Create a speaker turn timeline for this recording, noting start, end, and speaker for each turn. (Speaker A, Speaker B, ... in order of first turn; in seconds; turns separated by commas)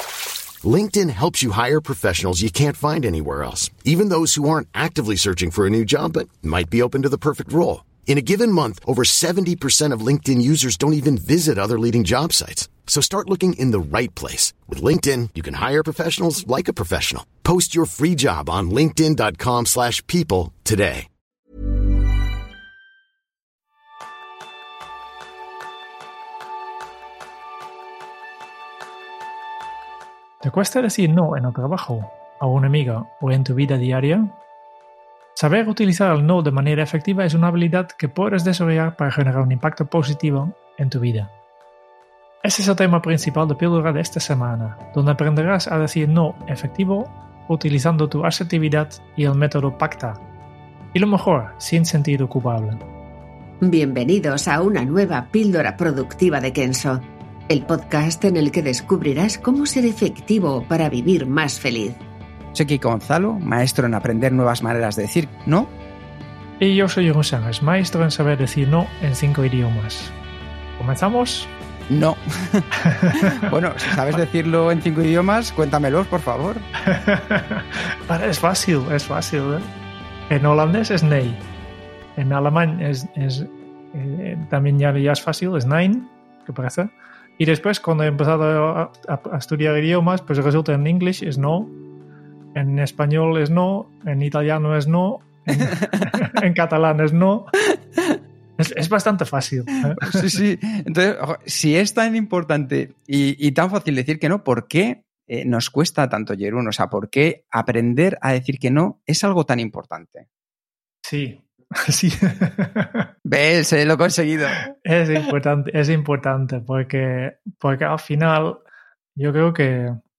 Speaker A: 0.6-21.1, Speaker B: 30.4-34.3, Speaker B: 35.4-41.3, Speaker B: 42.4-50.2, Speaker B: 50.9-52.8, Speaker C: 53.6-62.0, Speaker D: 62.5-65.7, Speaker B: 66.6-70.1, Speaker B: 70.8-71.5, Speaker D: 71.9-76.7, Speaker B: 72.8-73.5, Speaker B: 76.8-79.7, Speaker B: 80.3-81.4, Speaker B: 82.2-91.7, Speaker B: 92.5-97.5, Speaker D: 95.7-96.1, Speaker B: 98.6-100.2, Speaker D: 100.0-110.3, Speaker B: 111.0-113.1, Speaker D: 113.2-114.6, Speaker B: 114.7-118.6, Speaker B: 119.2-120.0